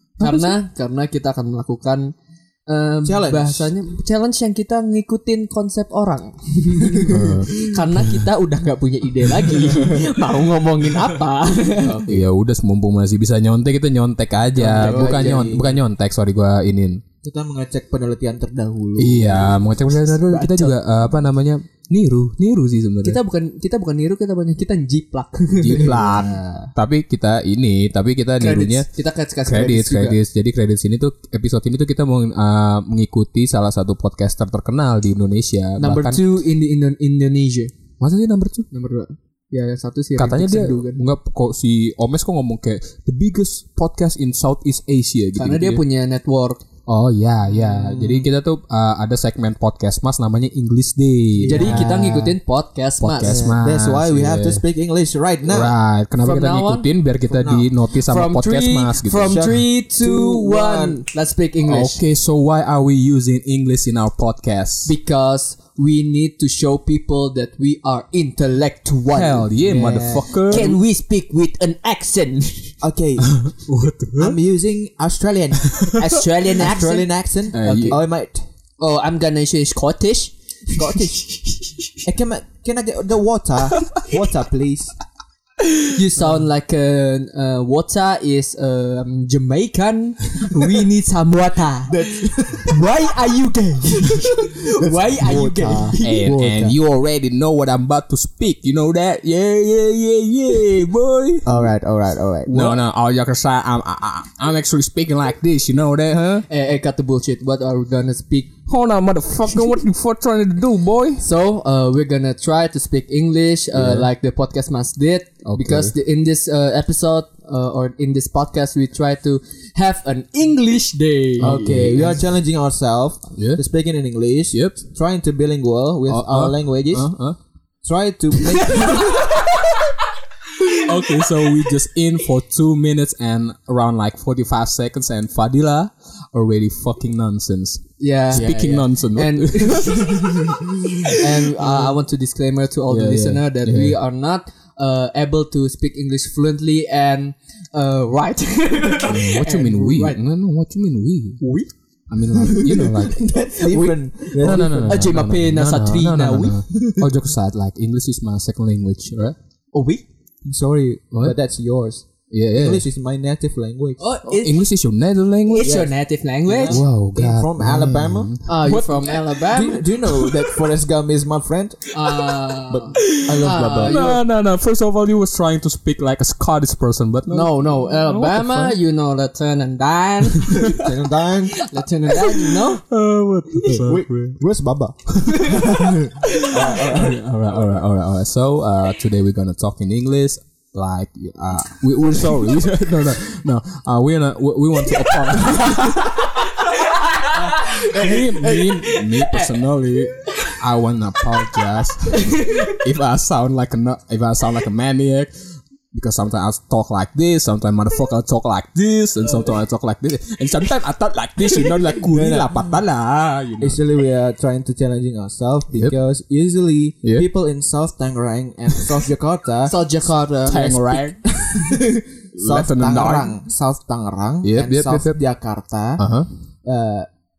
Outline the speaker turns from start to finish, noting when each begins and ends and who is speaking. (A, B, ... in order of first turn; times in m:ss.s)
0:00.2-0:00.6 A
0:00.2-0:02.1 B
0:02.7-0:12.2 B
0:03.0-0:03.7 C
0:07.0-0:07.3 C
0:07.1-0:08.1 A
0:11.8-0:12.2 C
0:11.9-0:17.0 A
0:14.6-0:15.8 C
0:14.6-0:15.6 B
0:17.2-0:19.8 C
0:19.0-0:23.2 A
0:20.2-0:20.7 B
0:20.4-0:20.7 C
0:23.0-0:26.3 B
0:25.6-0:28.9 A
0:25.8-0:26.6 C
0:28.4-0:30.2 B
0:29.4-0:36.2 A
0:35.8-0:37.8 B
0:38.0-0:38.7 A
0:38.7-0:41.0 B
0:40.2-0:45.8 A
0:45.4-0:46.6 B
0:46.8-0:51.9 A
0:47.5-0:48.3 C
0:51.4-0:52.4 C
0:51.4-0:53.5 B
0:53.0-0:54.6 A
0:53.2-0:55.8 C
0:55.5-0:59.5 A
0:56.2-0:56.9 B
0:57.3-0:57.7 C
0:57.9-1:02.0 B
0:59.2-1:01.0 C
1:01.7-1:04.9 A
1:04.8-1:09.5 B
1:09.1-1:10.8 A
1:09.6-1:10.3 C
1:10.4-1:12.8 B
1:12.8-1:13.5 C
1:13.2-1:14.4 A
1:14.2-1:18.4 C
1:15.6-1:15.9 A
1:15.9-1:18.0 B
1:17.5-1:18.0 A
1:18.8-1:21.8 B
1:20.7-1:21.3 C
1:22.0-1:25.0 C
1:25.8-1:36.3 B
1:31.9-1:32.8 C
1:34.0-1:36.8 C
1:36.0-1:41.5 A
1:41.4-1:42.8 C
1:42.4-1:46.5 A
1:46.5-1:48.5 B
1:48.7-1:51.2 A
1:51.2-2:02.2 B
1:53.7-1:54.1 A
1:55.4-1:55.9 A
2:01.4-2:02.2 A
2:01.4-2:07.1 C
2:03.4-2:03.6 A
2:04.5-2:04.8 A
2:06.1-2:07.4 A
2:07.8-2:09.7 C
2:10.7-2:21.9 A
2:18.0-2:20.6 B
2:21.1-2:30.2 B
2:22.9-2:24.0 A
2:29.0-2:31.4 A
2:31.4-2:31.7 B
2:32.1-2:33.2 A
2:32.4-2:35.0 C
2:33.5-2:36.6 B
2:34.4-2:39.4 A
2:36.7-2:37.0 C
2:39.7-2:40.0 B
2:40.4-2:44.1 C
2:42.3-2:42.8 A
2:44.0-2:44.7 B
2:44.3-2:45.9 A
2:45.5-2:46.8 B
2:45.6-2:45.9 C
2:46.4-2:54.0 C
2:46.7-2:48.8 A
2:48.4-2:49.8 B
2:50.1-2:50.6 A
2:51.9-2:54.2 B
2:53.0-2:58.8 A
2:57.3-3:00.9 B
3:00.6-3:01.6 C
3:01.5-3:02.8 B
3:02.1-3:04.4 A
3:03.8-3:07.2 C
3:05.2-3:16.5 A
3:05.3-3:05.6 B
3:17.2-3:17.6 B
3:17.3-3:18.8 C
3:17.5-3:25.3 A
3:22.1-3:22.7 B
3:25.9-3:33.8 A
3:32.1-3:32.6 C
3:33.6-3:39.8 C
3:39.6-3:41.1 B
3:40.5-3:41.8 A
3:41.5-3:46.1 C
3:42.3-3:43.3 A
3:44.4-3:45.2 A
3:46.0-3:46.3 A
3:46.6-3:47.1 C